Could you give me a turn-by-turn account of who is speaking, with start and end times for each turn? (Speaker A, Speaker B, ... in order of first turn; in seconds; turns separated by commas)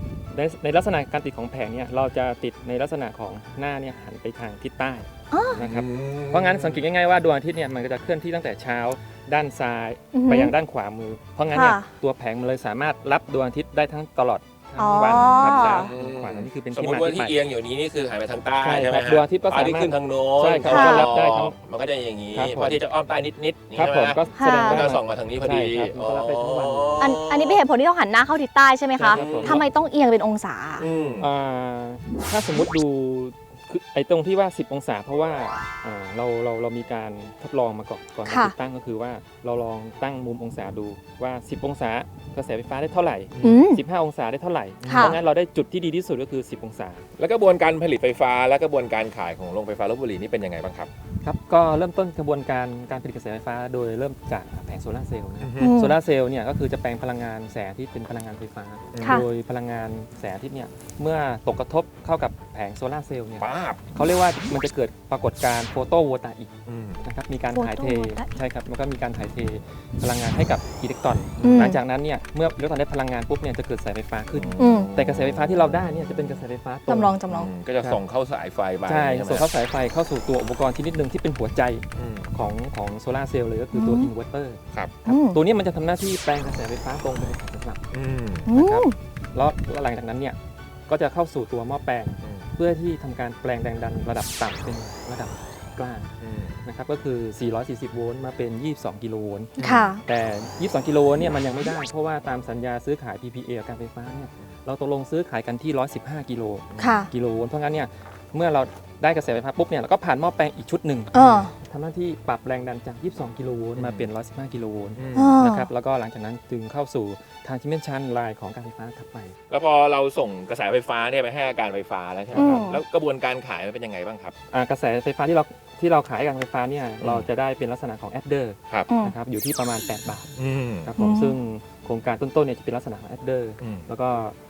Speaker A: 0.3-17.4, Speaker B: 5.3-5.6, Speaker C: 5.6-6.8, Speaker B: 10.1-10.5, Speaker B: 11.5-11.9, Speaker B: 14.8-15.9, Speaker C: 15.2-27.6, Speaker A: 18.6-21.6, Speaker B: 20.7-21.1, Speaker A: 22.3-22.8, Speaker A: 23.8-27.0, Speaker B: 24.4-24.8, Speaker B: 27.0-30.9, Speaker A: 29.0-29.6, Speaker C: 29.1-29.6, Speaker C: 30.8-31.3, Speaker A: 31.2-47.1, Speaker B: 38.3-38.5, Speaker C: 43.4-43.6, Speaker B: 43.4-43.8, Speaker C: 44.8-45.2, Speaker B: 44.9-45.2, Speaker C: 47.2-50.9, Speaker A: 51.2-66.5, Speaker C: 55.4-55.8, Speaker B: 55.6-56.0, Speaker C: 58.9-59.2, Speaker C: 63.4-63.8, Speaker C: 66.7-67.0, Speaker A: 67.0-77.1, Speaker B: 67.5-68.4, Speaker B: 71.4-71.8, Speaker C: 74.3-75.6, Speaker B: 74.6-74.9, Speaker B: 76.9-77.5, Speaker C: 77.3-79.5, Speaker A: 78.9-87.9, Speaker C: 82.0-82.3, Speaker B: 83.7-84.1, Speaker B: 85.1-85.4, Speaker C: 87.9-88.5, Speaker B: 88.5-89.0, Speaker A: 88.5-90.4, Speaker A: 90.9-96.1, Speaker C: 96.2-96.6, Speaker A: 96.6-119.3, Speaker C: 99.6-100.0, Speaker B: 99.6-100.0, Speaker C: 106.7-107.0, Speaker B: 106.8-107.1, Speaker B: 111.1-111.5, Speaker C: 113.8-114.1, Speaker C: 115.0-115.3, Speaker B: 115.2-115.7, Speaker C: 119.5-124.4, Speaker B: 122.3-122.8, Speaker A: 124.5-130.3, Speaker B: 128.9-129.2, Speaker C: 130.4-130.9, Speaker A: 130.8-134.3, Speaker B: 131.0-131.4, Speaker C: 133.6-133.9